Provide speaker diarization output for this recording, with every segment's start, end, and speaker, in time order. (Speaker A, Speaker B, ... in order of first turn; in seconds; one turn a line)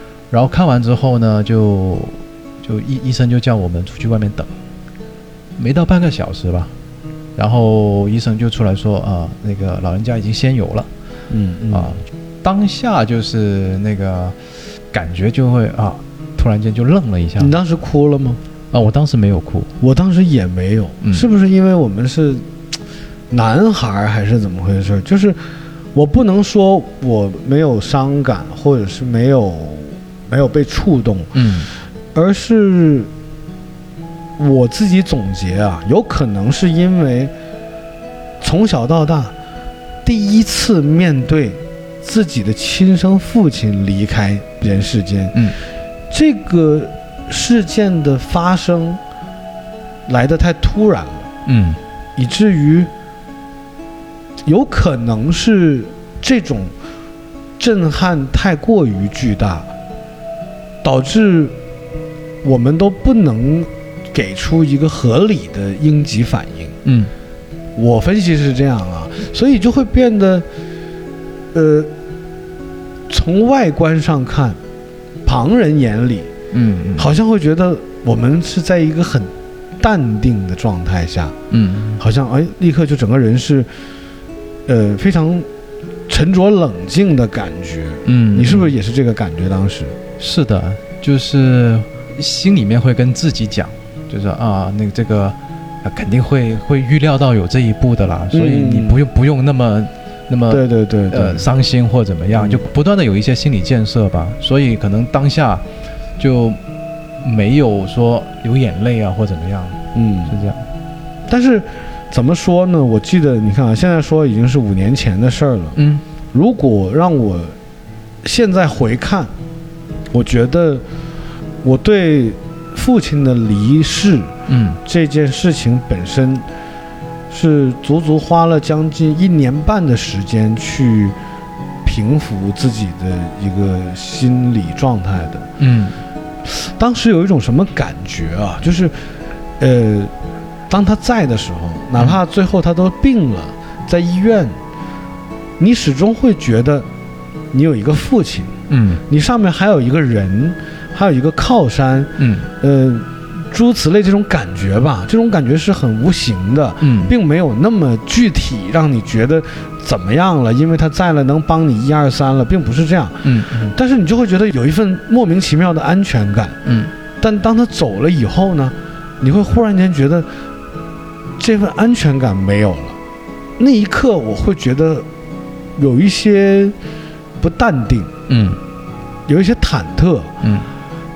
Speaker A: 0.3-4.5
Speaker A: 5.6-6.7
Speaker A: 7.4-10.9
Speaker B: 11.3-12.0
Speaker A: 11.7-14.4
Speaker A: 14.9-17.5
Speaker B: 17.4-18.4
Speaker A: 18.7-19.7
Speaker B: 19.8-22.4
Speaker B: 23.3-25.4
Speaker B: 25.9-31.4
Speaker A: 31.3-31.7
Speaker B: 32.1-33.1
Speaker B: 34.4-37.3
Speaker B: 38.4-39.3
Speaker B: 40.0-45.5
Speaker B: 46.1-49.0
Speaker B: 50.1-51.3
Speaker A: 51.5-51.8
Speaker B: 52.2-52.9
Speaker B: 54.5-56.7
Speaker B: 57.6-59.7
Speaker B: 60.8-61.5
Speaker B: 62.4-66.8
Speaker A: 66.8-67.1
Speaker B: 67.8-70.5
Speaker B: 71.5-71.9
Speaker B: 73.1-74.6
Speaker B: 75.3-76.3
Speaker A: 76.5-77.1
Speaker B: 77.0-81.4
Speaker A: 81.5-82.0
Speaker B: 82.0-83.7
Speaker B: 84.7-85.5
Speaker B: 86.1-90.0
Speaker A: 88.0-88.7
Speaker A: 90.2-105.6
Speaker B: 98.3-99.0
Speaker B: 100.5-101.5
Speaker B: 102.4-102.6
Speaker A: 106.2-106.6
Speaker A: 107.2-110.7
Speaker B: 109.9-110.4
Speaker B: 111.3-115.8
Speaker A: 115.8-116.0
Speaker B: 116.3-117.6
Speaker B: 118.2-119.3
Speaker B: 120.1-120.8
Speaker B: 121.6-126.5
Speaker A: 124.5-124.8
Speaker B: 127.3-131.2
Speaker B: 131.8-135.5
Speaker A: 135.6-136.0
Speaker B: 136.4-138.9
Speaker B: 139.6-140.1
Speaker B: 140.7-144.6
Speaker B: 145.6-146.9
Speaker B: 147.5-166.6
Speaker A: 148.7-149.0
Speaker A: 152.2-152.5
Speaker A: 156.8-157.1
Speaker A: 163.2-163.8
Speaker A: 166.7-166.9
Speaker B: 167.2-170.3
Speaker B: 171.4-173.0
Speaker B: 173.6-175.1
Speaker B: 175.8-176.8
Speaker B: 177.4-178.1
Speaker A: 178.3-178.6
Speaker B: 179.3-180.3
Speaker A: 180.4-180.7